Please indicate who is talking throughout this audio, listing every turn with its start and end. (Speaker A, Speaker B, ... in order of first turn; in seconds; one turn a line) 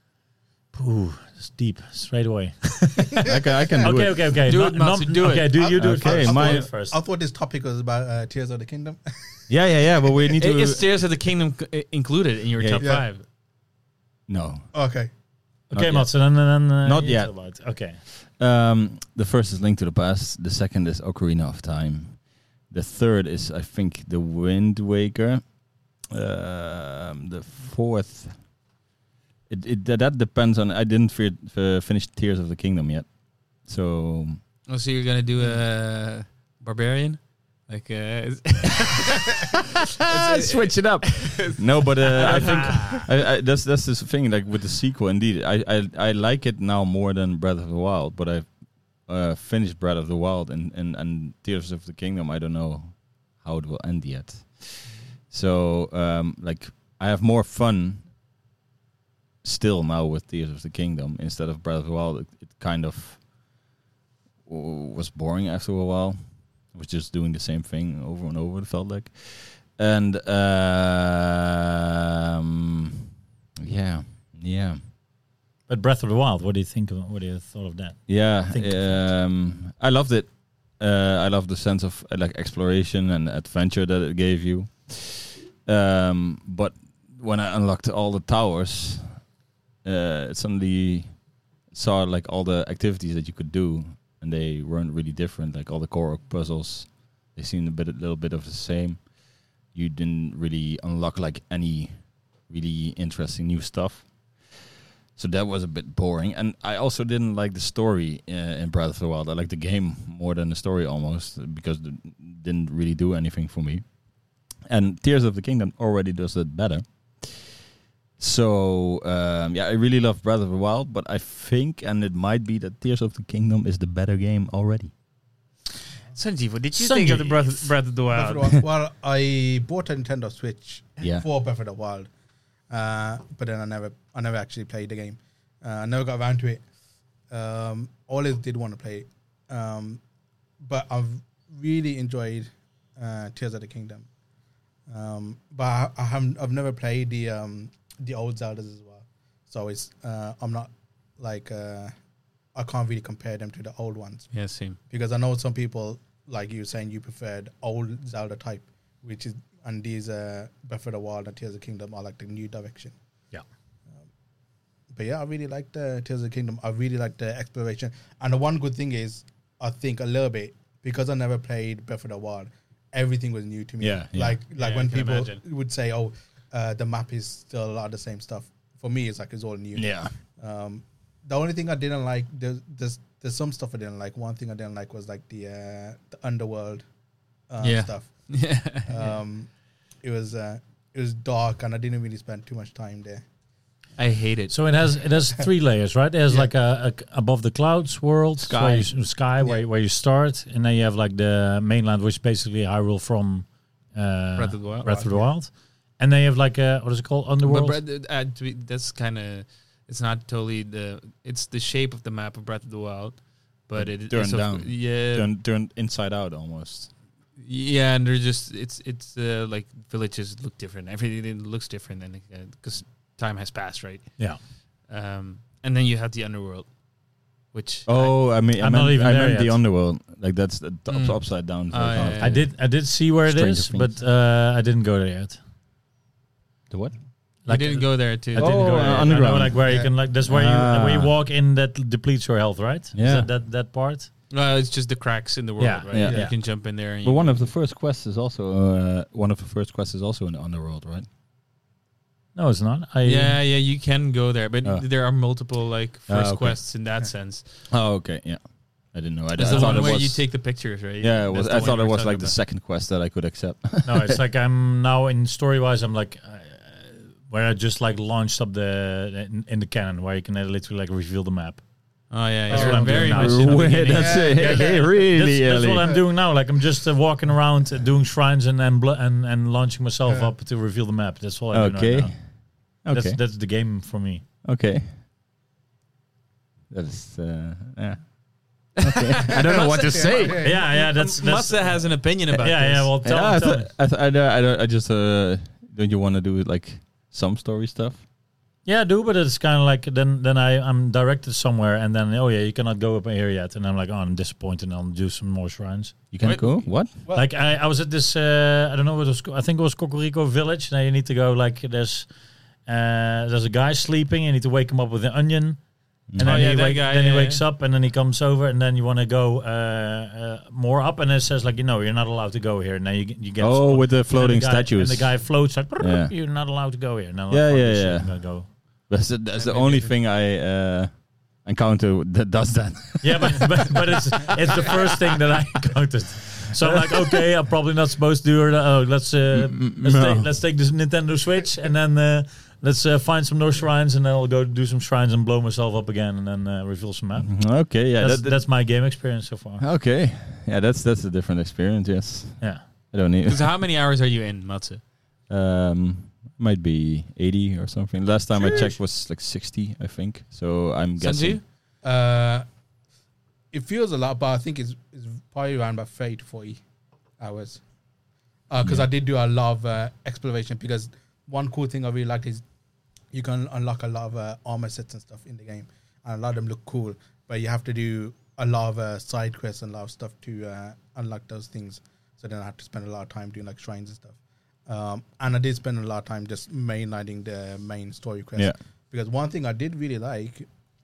Speaker A: 0.7-3.2
Speaker B: 3.2-4.3
Speaker A: 3.8-7.0
Speaker C: 4.5-5.5
Speaker D: 5.5-9.4
Speaker B: 5.8-6.7
Speaker B: 9.5-10.8
Speaker C: 10.4-13.2
Speaker B: 12.6-12.9
Speaker B: 14.3-14.7
Speaker D: 14.7-15.1
Speaker A: 15.7-18.0
Speaker B: 15.7-16.3
Speaker B: 16.8-25.4
Speaker B: 26.0-28.4
Speaker B: 29.5-34.4
Speaker C: 34.7-43.1
Speaker B: 40.0-58.1
Speaker A: 42.3-42.8
Speaker B: 59.4-63.2
Speaker B: 64.4-74.8
Speaker A: 75.7-79.1
Speaker B: 78.1-89.2
Speaker B: 89.8-99.1
Speaker B: 99.6-113.9
Speaker B: 114.6-117.6
Speaker B: 118.2-124.9
Speaker C: 126.1-128.5
Speaker A: 126.7-127.7
Speaker D: 128.1-132.1
Speaker D: 132.7-136.6
Speaker D: 137.3-140.0
Speaker D: 140.6-144.1
Speaker D: 144.9-151.9
Speaker D: 152.5-154.3
Speaker C: 154.3-154.8
Speaker D: 154.9-162.9
Speaker D: 164.9-186.8
Speaker B: 173.8-174.4
Speaker C: 174.5-175.4
Speaker B: 179.7-180.1
Speaker D: 187.5-188.1
Speaker C: 187.6-189.1
Speaker D: 188.8-189.5
Speaker D: 190.0-193.2
Speaker C: 194.0-194.5
Speaker A: 194.5-207.8
Speaker B: 198.5-198.9
Speaker C: 204.4-205.2
Speaker D: 204.9-205.2
Speaker C: 207.4-215.3
Speaker B: 213.7-216.9
Speaker C: 217.4-224.2
Speaker C: 224.9-226.7
Speaker C: 227.5-228.1
Speaker B: 227.9-232.5
Speaker A: 228.6-229.6
Speaker C: 230.9-232.5
Speaker A: 232.2-235.4
Speaker B: 233.2-233.9
Speaker B: 236.7-236.9
Speaker A: 237.4-244.1
Speaker C: 237.5-239.2
Speaker B: 238.3-241.1
Speaker D: 239.6-239.9
Speaker B: 242.9-243.3
Speaker C: 244.3-247.5
Speaker A: 245.6-246.3
Speaker B: 245.9-246.4
Speaker B: 247.0-251.1
Speaker A: 252.3-253.3
Speaker C: 253.0-257.4
Speaker B: 256.1-256.6
Speaker B: 257.7-258.4
Speaker B: 258.9-260.4
Speaker C: 259.3-262.3
Speaker A: 259.4-259.9
Speaker B: 261.0-264.2
Speaker A: 263.8-271.6
Speaker C: 272.1-274.3
Speaker A: 272.5-282.1
Speaker D: 272.5-273.1
Speaker B: 272.8-276.0
Speaker D: 273.9-274.8
Speaker D: 280.1-280.3
Speaker B: 281.5-282.2
Speaker B: 282.8-283.2
Speaker A: 282.9-284.2
Speaker B: 284.4-284.9
Speaker B: 286.7-288.1
Speaker B: 288.8-290.5
Speaker C: 288.8-292.9
Speaker D: 289.8-290.6
Speaker A: 290.4-293.7
Speaker B: 293.0-298.0
Speaker A: 298.6-305.9
Speaker B: 306.1-306.9
Speaker C: 306.2-306.7
Speaker A: 307.1-312.1
Speaker A: 312.6-315.6
Speaker B: 316.1-316.5
Speaker A: 316.1-328.5
Speaker C: 316.2-317.4
Speaker B: 323.4-326.1
Speaker B: 327.3-334.7
Speaker C: 329.3-329.9
Speaker A: 333.0-349.6
Speaker B: 336.6-336.9
Speaker B: 339.3-340.3
Speaker B: 347.2-348.5
Speaker B: 349.6-353.5
Speaker C: 353.2-354.8
Speaker B: 355.3-361.4
Speaker D: 358.4-358.7
Speaker C: 361.0-361.4
Speaker D: 361.8-362.4
Speaker D: 363.5-366.6
Speaker D: 367.2-367.6
Speaker D: 368.5-372.4
Speaker D: 373.1-384.1
Speaker D: 384.7-390.5